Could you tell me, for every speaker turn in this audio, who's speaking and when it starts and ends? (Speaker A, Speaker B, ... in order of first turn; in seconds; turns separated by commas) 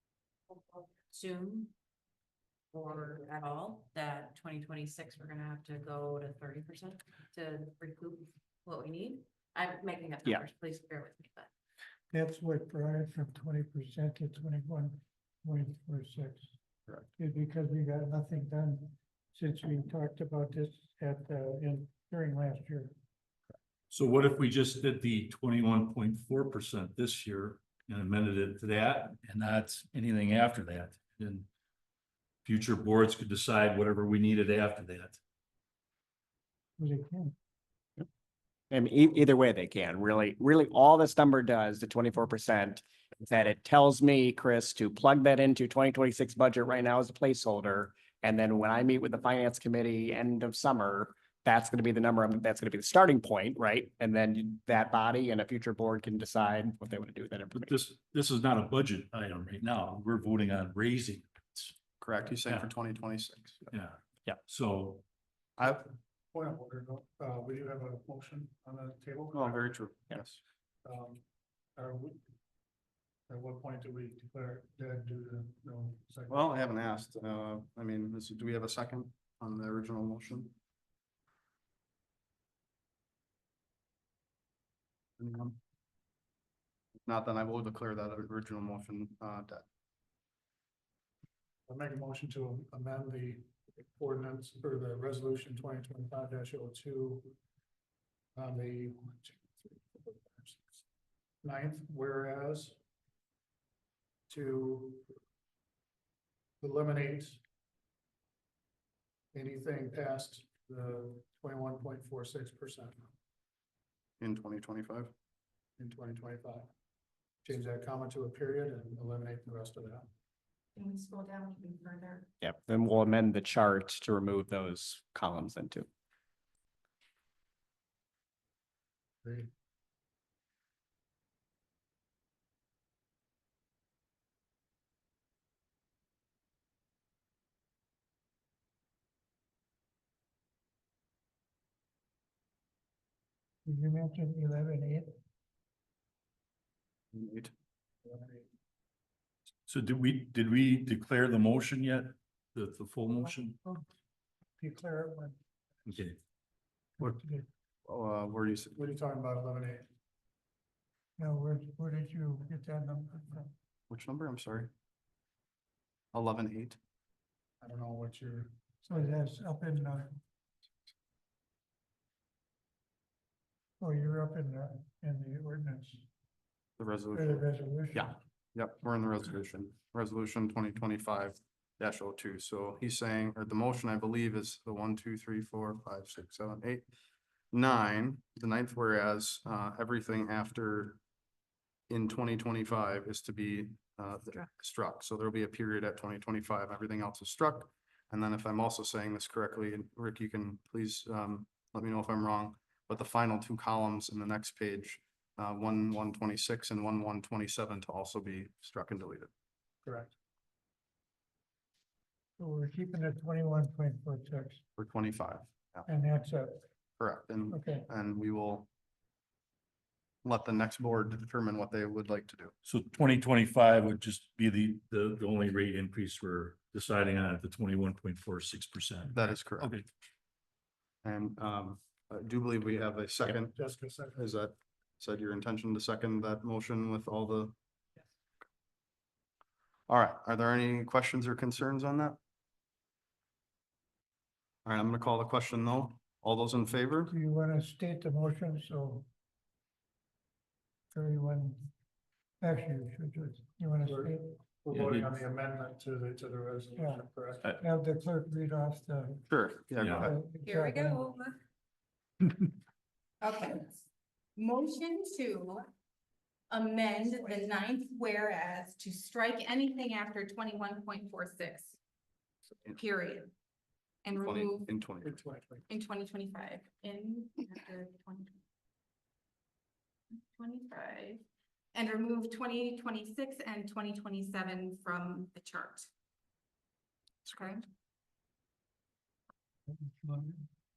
Speaker A: 0.5-1.7, Speaker A: 2.7-11.5, Speaker B: 12.1-16.5, Speaker B: 17.1-22.9, Speaker C: 23.9-31.5, Speaker C: 32.4-35.2, Speaker B: 36.8-37.3, Speaker D: 38.7-57.8, Speaker C: 57.5-61.7, Speaker E: 62.0-63.7, Speaker C: 63.7-65.0, Speaker E: 65.6-65.8, Speaker F: 66.3-69.6, Speaker E: 69.3-70.4, Speaker F: 70.8-71.2, Speaker F: 71.8-72.2, Speaker F: 73.3-76.5, Speaker E: 76.3-80.5, Speaker E: 85.2-85.6, Speaker E: 87.0-89.7, Speaker F: 91.7-97.3, Speaker F: 98.3-100.8, Speaker F: 101.4-102.8, Speaker F: 104.3-105.0, Speaker F: 106.6-107.4, Speaker F: 109.3-113.0, Speaker E: 114.2-115.1, Speaker F: 115.8-116.7, Speaker F: 117.4-120.1, Speaker G: 120.7-122.3, Speaker D: 122.4-125.9, Speaker F: 129.2-129.5, Speaker B: 143.6-145.2, Speaker E: 147.1-147.5, Speaker C: 149.7-153.6, Speaker B: 154.6-155.4, Speaker C: 155.8-156.2, Speaker B: 157.0-157.4, Speaker E: 157.8-158.8, Speaker F: 158.8-159.8, Speaker B: 161.2-163.5, Speaker E: 163.9-164.7, Speaker E: 166.1-166.8, Speaker F: 167.6-168.5, Speaker B: 168.8-170.2, Speaker B: 173.8-176.0, Speaker E: 176.8-177.5, Speaker B: 177.1-178.2, Speaker E: 178.0-186.9, Speaker E: 187.5-191.0, Speaker E: 191.9-209.3, Speaker F: 209.8-210.1, Speaker B: 212.4-214.6, Speaker E: 214.8-215.8, Speaker B: 215.8-216.6, Speaker E: 217.0-218.7, Speaker B: 217.5-217.9, Speaker E: 220.2-222.5, Speaker C: 222.6-229.8, Speaker E: 229.1-229.7, Speaker E: 231.0-233.5, Speaker F: 233.3-234.3, Speaker E: 234.2-237.5, Speaker E: 239.9-242.2, Speaker E: 244.7-247.1, Speaker B: 247.1-249.1, Speaker B: 250.9-251.6, Speaker B: 252.4-254.3, Speaker F: 253.8-257.6, Speaker C: 254.7-255.1, Speaker B: 256.8-261.1, Speaker E: 259.3-260.1, Speaker C: 259.8-260.1, Speaker G: 260.4-261.4, Speaker G: 263.2-263.8, Speaker G: 264.4-265.7, Speaker G: 266.5-271.8, Speaker G: 272.7-273.3, Speaker G: 274.0-274.8, Speaker E: 274.2-275.2, Speaker F: 275.0-275.6, Speaker G: 275.6-278.4, Speaker G: 280.1-281.2, Speaker G: 281.7-285.9, Speaker G: 287.2-287.6, Speaker B: 289.7-290.4